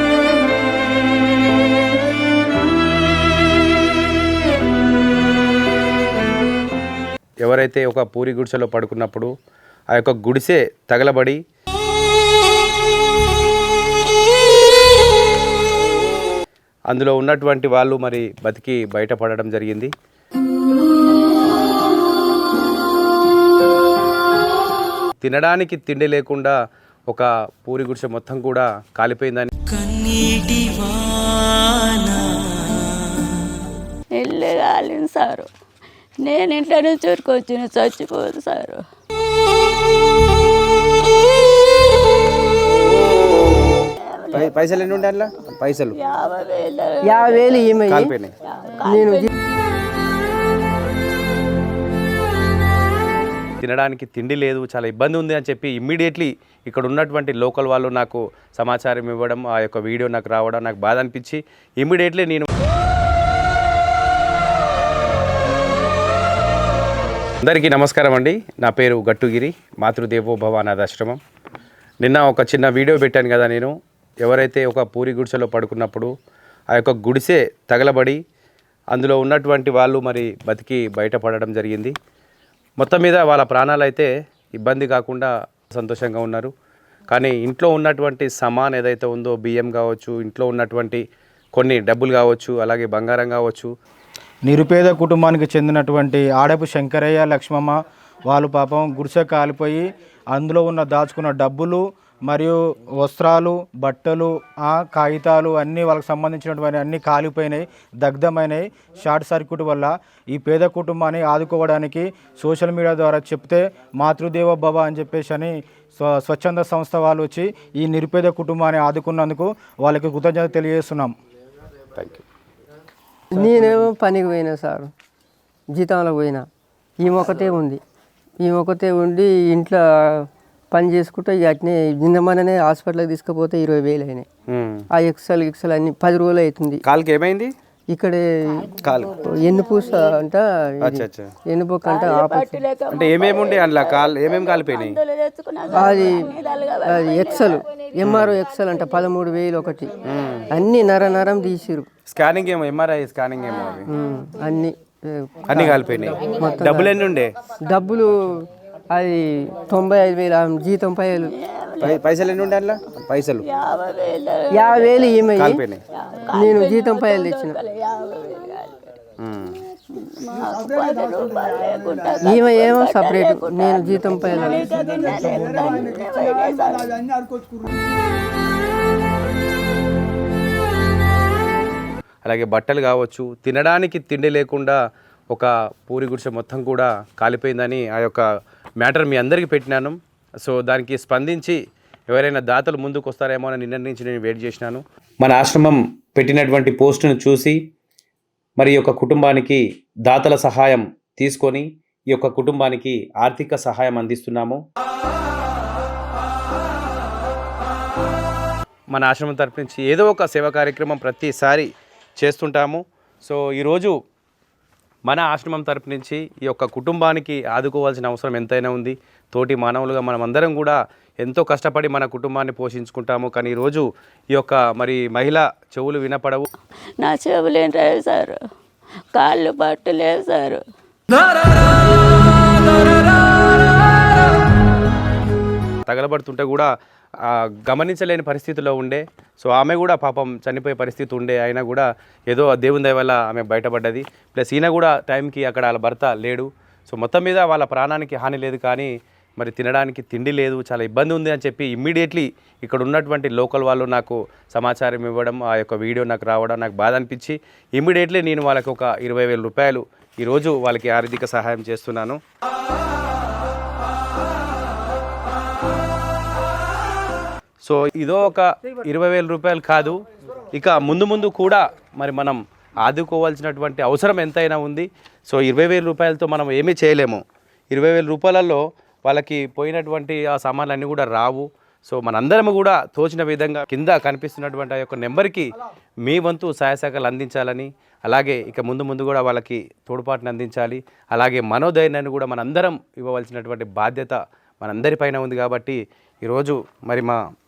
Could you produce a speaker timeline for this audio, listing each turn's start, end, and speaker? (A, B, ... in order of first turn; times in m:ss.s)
0:07.4-0:09.3 A
0:09.9-0:11.4 A
0:16.9-0:19.9 A
0:25.2-0:26.6 A
0:27.1-0:29.5 A
0:29.8-0:33.0 B
0:34.2-0:35.5 C
0:36.2-0:38.8 C
0:43.8-0:44.7 C
0:44.3-0:46.0 A
0:46.0-0:47.8 C
0:47.0-0:48.1 D
0:47.9-0:48.3 A
0:48.5-0:49.3 C
0:48.8-0:49.3 D
0:53.6-1:02.5 A
1:07.4-1:11.2 A
1:12.0-1:16.1 A
1:16.7-1:18.2 A
1:18.9-1:21.9 A
1:22.8-1:26.5 A
1:27.1-1:31.0 A
1:31.5-1:33.7 A
1:34.5-2:01.1 E
2:01.9-2:02.2 A
2:03.3-2:04.9 D
2:05.7-2:06.4 D
2:07.0-2:07.8 D
2:08.4-2:14.3 D
2:14.5-2:14.9 A
2:14.9-2:16.8 D
2:16.8-2:17.5 A
2:17.9-2:22.6 D
2:18.8-2:19.2 A
2:20.8-2:21.3 A
2:21.8-2:27.6 C
2:22.9-2:25.0 A
2:25.7-2:26.3 D
2:26.8-2:29.9 D
2:28.0-2:28.4 A
2:30.0-2:30.5 A
2:30.5-2:31.9 D
2:32.1-2:33.9 A
2:33.9-2:37.0 D
2:35.5-2:37.3 A
2:37.6-2:41.4 D
2:41.2-2:42.2 C
2:41.8-2:43.4 A
2:43.4-2:45.3 C
2:44.5-2:45.6 D
2:45.3-2:45.8 A
2:46.0-2:48.9 C
2:46.3-2:47.6 D
2:49.2-2:49.6 A
2:49.8-2:57.0 C
2:52.2-2:54.7 D
3:02.2-3:04.8 A
3:05.3-3:08.2 A
3:08.8-3:17.6 A
3:18.6-3:24.6 A
3:28.9-3:34.0 A
3:35.1-3:46.5 A
3:47.0-3:48.4 C
3:49.1-3:50.6 C
3:55.8-3:56.7 A
3:57.2-4:22.2 A
4:27.6-4:45.5 A
4:46.0-4:57.2 A